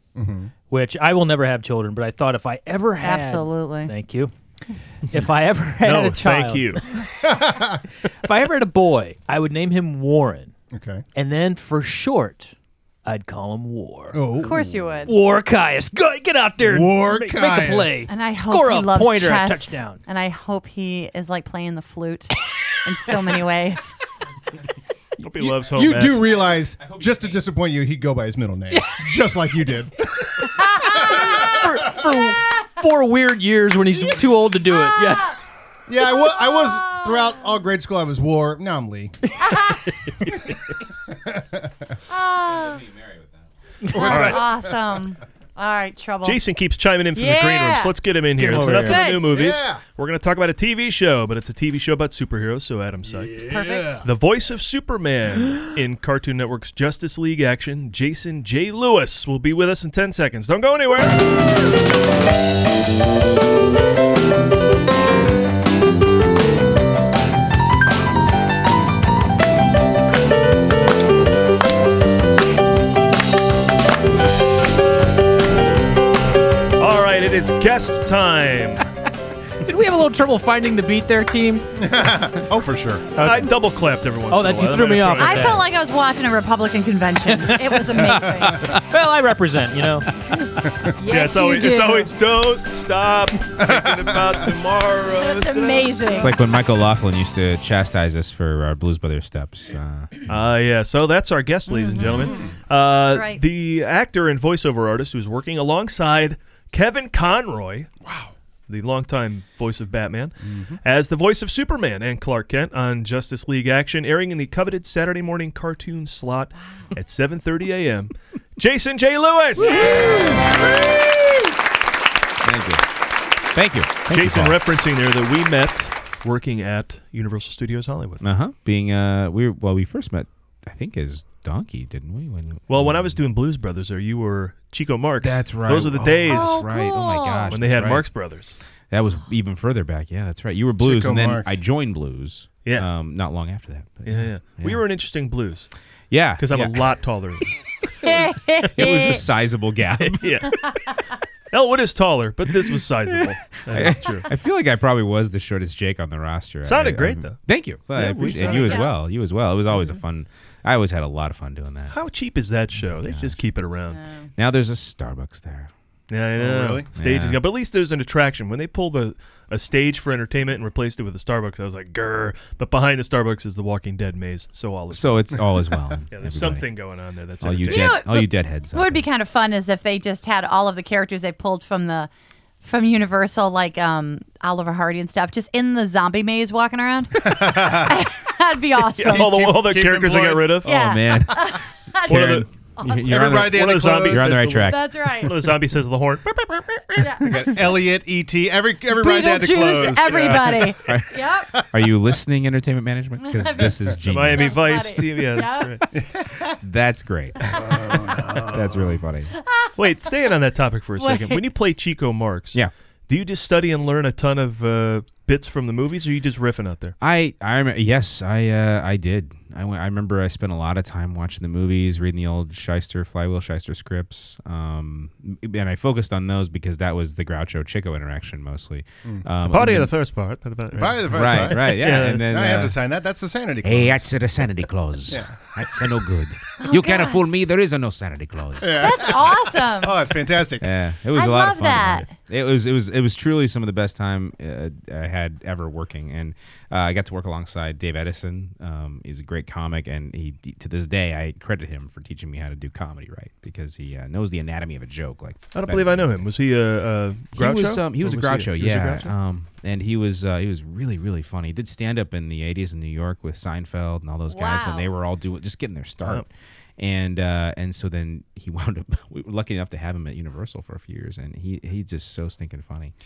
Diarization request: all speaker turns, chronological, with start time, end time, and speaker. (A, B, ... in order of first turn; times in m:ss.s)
0:00.1-0:00.5 A
0:00.7-0:04.3 B
0:03.0-0:03.9 C
0:05.0-0:07.0 B
0:05.8-0:06.8 D
0:07.1-0:07.8 A
0:08.0-0:10.5 B
0:10.7-0:11.0 A
0:11.1-0:12.5 B
0:13.0-0:14.2 B
0:14.1-0:14.9 A
0:14.4-0:15.1 C
0:15.0-0:20.0 B
0:16.6-0:18.1 A
0:18.1-0:22.3 C
0:22.8-0:23.9 C
0:25.2-0:30.1 A
0:25.2-0:26.4 D
0:28.7-0:29.0 B
0:30.8-0:35.3 B
0:30.8-0:31.6 C
0:31.1-0:31.4 A
0:34.7-0:35.4 C
0:35.9-0:39.2 A
0:36.0-0:37.4 C
0:39.4-0:39.9 C
0:41.1-0:41.9 A
0:42.1-0:42.8 C
0:43.8-0:44.3 B
0:43.9-0:44.8 A
0:43.9-0:46.4 C
0:44.0-0:44.4 D
0:46.2-0:53.4 D
0:47.1-0:47.9 C
0:48.4-0:49.0 B
0:48.5-0:49.3 C
0:49.3-0:49.8 A
0:53.1-0:54.1 A
0:53.5-0:54.0 C
0:54.0-1:01.3 D
1:16.8-1:18.8 D
1:19.6-1:21.7 B
1:21.8-1:23.0 A
1:23.2-1:23.5 B
1:23.2-1:25.6 D
1:24.3-1:25.6 B
1:25.2-1:28.7 C
1:27.3-1:30.1 B
1:31.0-1:32.1 C
1:31.1-1:36.3 D
1:33.6-1:34.4 A
1:35.2-1:36.4 C
1:36.1-1:40.2 E
1:40.2-1:47.9 D
1:41.7-1:43.4 C
1:42.2-1:42.5 A
1:48.0-1:48.3 A
1:48.7-2:00.4 D
1:50.5-1:50.8 A
1:59.6-2:00.4 C
1:59.8-2:00.5 E
2:02.4-2:02.8 E
2:03.5-2:04.6 E
2:04.1-2:08.3 D
2:08.2-2:13.2 E
2:12.7-2:16.6 D
2:15.2-2:18.2 E
2:16.3-2:17.6 C
2:17.5-2:18.6 D
2:18.9-2:24.8 E
2:20.8-2:21.6 A
2:24.0-2:25.7 D
2:26.1-2:27.0 E
2:26.4-2:27.6 D
2:28.0-2:29.2 C
2:28.7-2:30.4 E
2:30.0-2:30.7 D
2:31.5-2:34.3 D
2:32.6-2:42.0 E
2:36.6-2:38.9 D
2:38.4-2:38.9 C
2:41.9-2:44.0 D
2:42.8-2:43.4 E
2:43.9-2:44.3 C
2:44.4-2:45.7 E
2:46.1-2:55.5 D
2:46.4-2:46.9 A
2:46.9-2:47.4 E
2:54.9-2:56.7 E
2:56.1-2:58.0 D
2:57.4-2:59.1 E
2:57.7-3:02.1 C
3:02.6-3:09.5 C
3:07.2-3:08.1 A
3:08.9-3:10.7 D
3:09.0-3:10.6 A
3:10.6-3:13.2 C
3:10.6-3:11.5 E
3:12.1-3:12.5 D
3:12.1-3:14.9 E
3:13.0-3:14.6 A
3:13.2-3:17.0 D
3:14.5-3:15.3 C
3:17.0-3:17.4 C
3:17.0-3:21.9 A
3:18.9-3:21.6 C
3:20.8-3:21.1 E
3:21.7-3:24.7 E
3:23.2-3:25.8 C
3:24.0-3:25.8 D
3:25.9-3:26.6 A
3:26.6-3:27.4 E
3:27.5-3:29.0 A
3:28.5-3:29.3 E
3:29.8-3:36.9 D
3:31.0-3:31.4 C
3:37.0-3:49.9 E
3:49.4-3:52.3 D
3:50.7-3:54.4 A
3:51.1-3:52.8 E
3:53.6-3:58.8 E
3:55.1-3:55.7 A
3:56.6-3:57.3 C
3:58.6-4:00.7 A
3:58.7-4:00.0 C
4:00.6-4:16.3 E
4:01.1-4:02.2 C
4:15.5-4:19.1 D
4:17.3-4:26.2 E
4:24.3-4:24.9 C
4:26.8-4:32.9 E